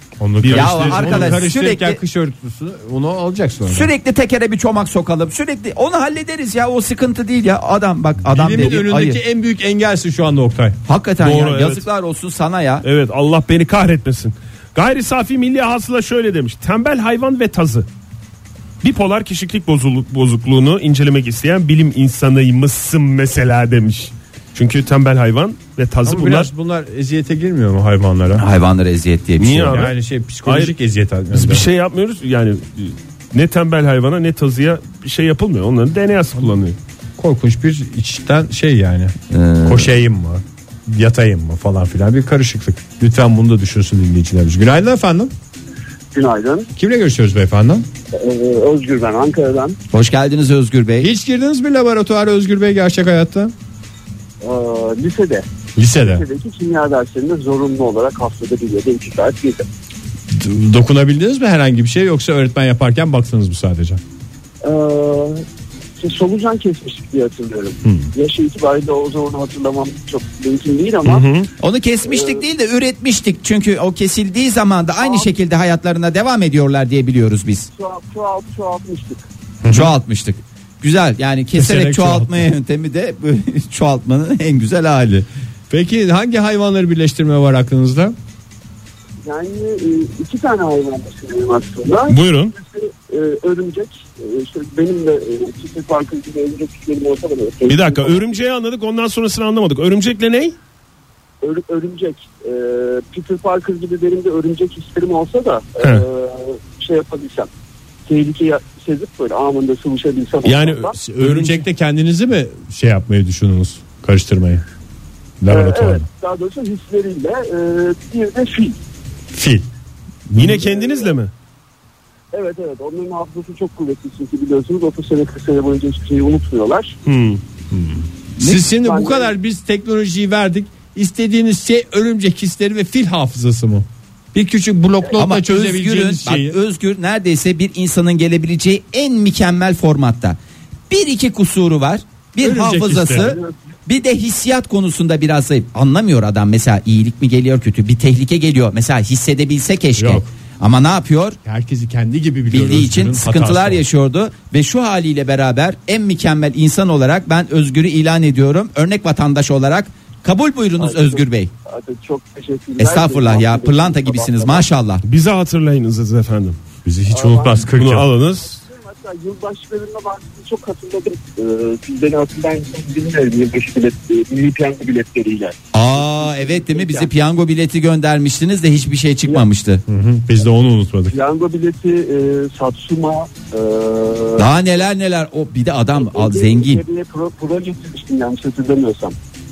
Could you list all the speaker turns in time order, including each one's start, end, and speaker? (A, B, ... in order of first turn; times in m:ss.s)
0:00.2-0:03.9 A
0:00.4-0:01.4 B
0:00.5-0:02.0 C
0:03.7-0:09.2 C
0:08.2-0:10.8 A
0:10.9-0:12.8 C
0:11.2-0:11.9 B
0:12.8-0:17.9 B
0:18.8-0:26.5 B
0:26.0-0:28.4 A
0:28.4-0:29.9 C
0:29.4-0:29.9 B
0:29.7-0:31.7 A
0:30.4-0:30.8 B
0:31.3-0:36.8 B
0:37.2-0:45.3 A
0:39.3-0:39.9 C
0:46.1-0:46.7 D
0:46.8-0:47.9 A
0:48.2-0:49.8 D
0:49.9-0:51.1 C
0:51.0-0:53.5 A
0:54.4-0:59.7 D
0:55.8-0:56.2 A
1:00.3-1:04.0 A
1:04.6-1:05.4 D
1:06.0-1:11.4 D
1:07.8-1:08.1 A
1:11.0-1:11.5 B
1:11.6-1:17.7 C
1:12.1-1:12.4 D
1:15.0-1:15.3 D
1:17.7-1:19.3 D
1:19.6-1:19.9 A
1:19.7-1:25.3 C
1:21.6-1:22.5 A
1:25.7-1:28.2 A
1:29.2-1:38.3 D
1:32.1-1:32.5 B
1:37.7-1:40.6 B
1:41.4-1:47.5 D
1:45.8-1:46.1 B
1:48.1-1:51.0 D
1:50.4-1:51.6 B
1:51.0-1:54.6 A
1:55.4-1:56.1 A
1:55.5-1:58.8 D
1:59.3-1:59.7 A
2:00.3-2:01.3 B
2:00.4-2:01.2 D
2:02.3-2:07.0 D
2:07.0-2:07.4 B
2:07.7-2:16.6 A
2:08.7-2:09.3 D
2:15.1-2:20.4 C
2:20.9-2:31.4 C
2:22.4-2:23.4 A
2:23.1-2:23.5 D
2:30.0-2:30.3 A
2:31.4-2:33.8 A
2:32.5-2:41.5 C
2:40.8-2:44.6 D
2:42.8-2:45.0 C
2:45.0-2:46.6 B
2:46.8-2:48.1 A
2:47.1-2:47.7 D
2:47.8-2:48.6 B
2:48.4-2:57.1 D
2:55.7-2:59.8 C
2:59.9-3:01.1 A
3:01.1-3:04.5 D
3:04.4-3:06.8 C
3:06.0-3:09.2 D